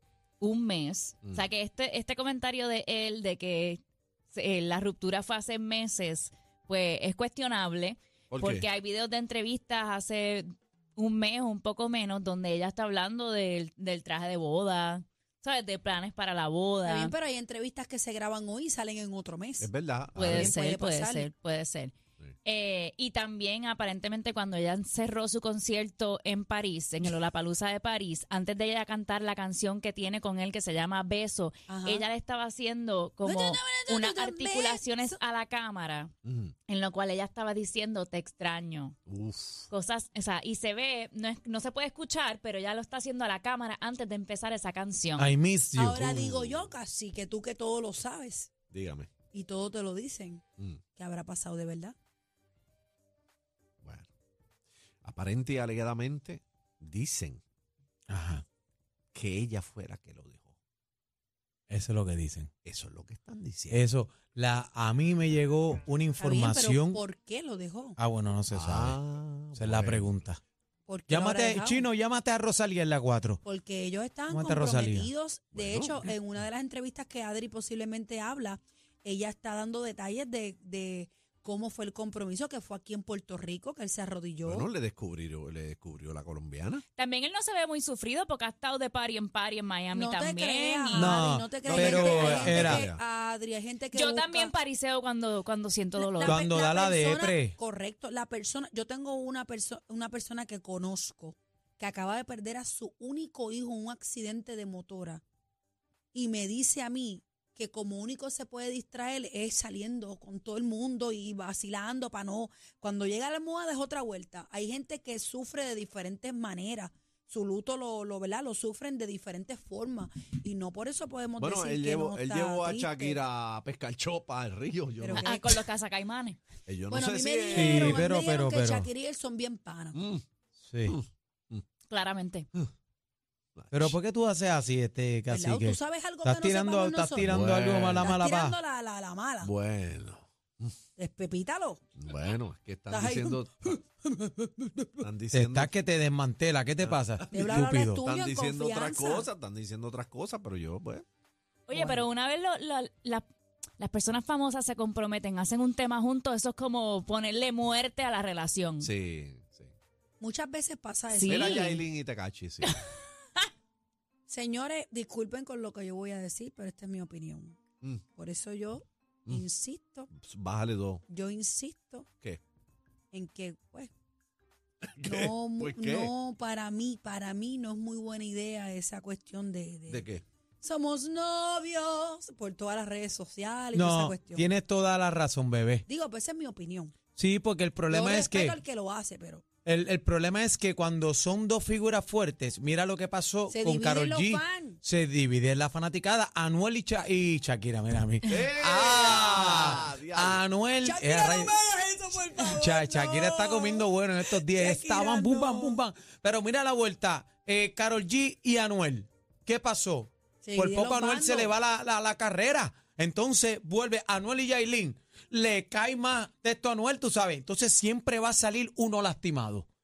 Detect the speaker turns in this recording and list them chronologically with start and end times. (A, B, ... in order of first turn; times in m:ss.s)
0:00.4-0:03.8 A
0:04.3-0:17.1 A
0:08.3-0:08.7 B
0:16.8-0:19.7 C
0:19.6-0:20.6 B
0:20.2-0:21.9 A
0:20.2-0:21.3 C
0:22.4-0:36.1 A
0:31.7-0:32.1 C
0:33.2-0:35.2 C
0:36.2-0:36.5 B
0:36.7-0:39.0 A
0:39.1-0:39.7 B
0:39.7-0:45.3 A
0:45.2-0:46.1 D
0:45.7-0:48.5 C
0:45.9-0:46.7 B
0:48.7-0:49.1 B
0:49.3-0:50.4 C
0:51.0-0:52.0 C
0:53.8-0:54.1 B
0:55.0-0:57.4 B
0:58.1-0:58.4 D
0:59.1-1:00.6 B
1:01.7-1:02.5 D
1:02.6-1:03.8 B
1:03.7-1:07.0 D
1:06.2-1:08.0 C
1:08.0-1:09.0 D
1:08.5-1:10.1 B
1:09.5-1:10.4 D
1:10.9-1:11.9 C
1:11.1-1:13.4 D
1:13.4-1:24.7 C
1:14.3-1:15.1 D
1:15.5-1:16.1 B
1:24.5-1:26.8 B
1:27.0-1:31.2 A
1:29.9-1:34.5 C
1:30.9-1:32.9 D
1:31.6-1:33.0 B
1:33.9-1:36.4 A
1:36.0-1:45.2 C
1:36.2-1:37.6 D
1:46.1-2:03.2 C
2:01.4-2:05.4 B
2:05.0-2:05.6 C
2:05.2-2:06.4 A
2:06.7-2:08.0 B
2:06.9-2:10.0 C
2:07.5-2:08.9 D
2:09.9-2:10.2 B
2:10.7-2:11.0 D
2:10.9-2:11.6 B
2:11.9-2:12.5 A
2:13.6-2:14.0 B
2:13.7-2:18.6 D
2:15.3-2:17.3 C
2:17.2-2:18.1 B
2:18.0-2:19.5 C
2:19.4-2:20.7 B
2:21.0-2:21.8 C
2:22.0-2:23.8 B
2:22.9-2:23.8 C
2:25.0-2:25.7 B
2:25.3-2:28.0 D
2:26.8-2:31.0 B
2:27.3-2:29.3 C
2:31.7-2:33.2 A
2:31.7-2:32.0 C
2:33.8-2:38.9 A
2:38.8-2:39.7 B
2:40.2-2:41.7 C
2:41.1-2:41.8 A
2:41.3-2:42.8 B
2:44.3-2:47.6 C
2:48.2-2:50.1 C
2:50.2-2:51.0 B
2:51.1-2:52.1 C
2:53.1-2:53.9 C
2:54.8-2:56.1 B
2:55.0-3:00.1 C
2:59.9-3:00.2 B
3:00.6-3:04.5 C
3:03.7-3:05.8 D
3:05.9-3:06.9 C
3:07.2-3:08.6 D
3:07.9-3:09.4 C
3:09.6-3:21.6 D
3:13.5-3:14.8 C
3:18.3-3:20.4 B
3:20.8-3:25.8 C
3:22.1-3:39.7 D
3:30.4-3:31.5 C